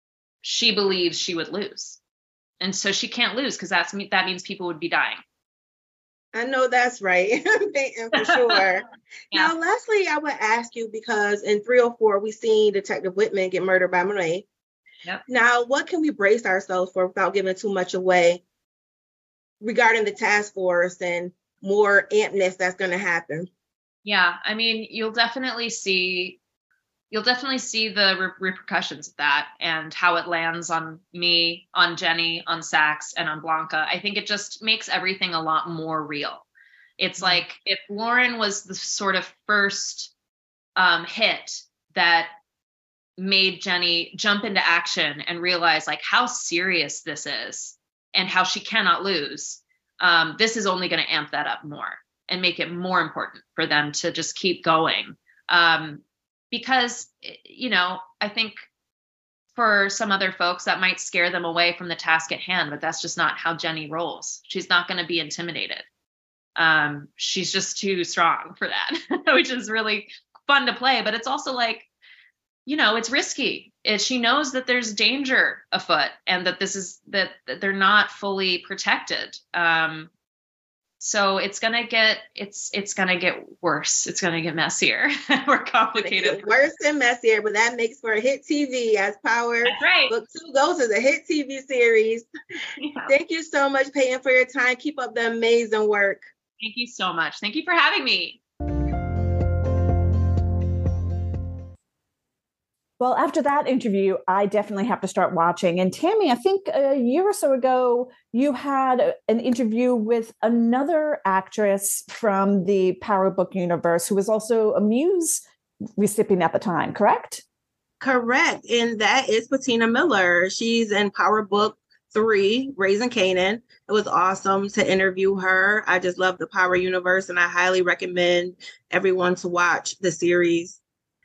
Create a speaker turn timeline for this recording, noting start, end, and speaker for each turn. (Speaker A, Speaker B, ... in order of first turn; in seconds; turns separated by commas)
Speaker A: 0.4-2.0, Speaker A: 2.6-5.2, Speaker B: 6.3-14.4, Speaker A: 8.2-8.6, Speaker B: 15.3-18.4, Speaker B: 19.6-23.5, Speaker A: 24.1-26.4, Speaker A: 27.1-36.5, Speaker A: 37.0-40.1, Speaker A: 40.8-42.3, Speaker A: 43.2-58.6, Speaker A: 59.5-65.9, Speaker A: 66.6-71.9, Speaker A: 72.7-80.1, Speaker A: 81.0-86.6, Speaker B: 86.0-92.3, Speaker A: 89.7-90.1, Speaker A: 92.8-93.1, Speaker B: 93.1-96.2, Speaker A: 96.6-98.4, Speaker C: 103.0-115.4, Speaker C: 116.0-117.4, Speaker B: 118.0-130.8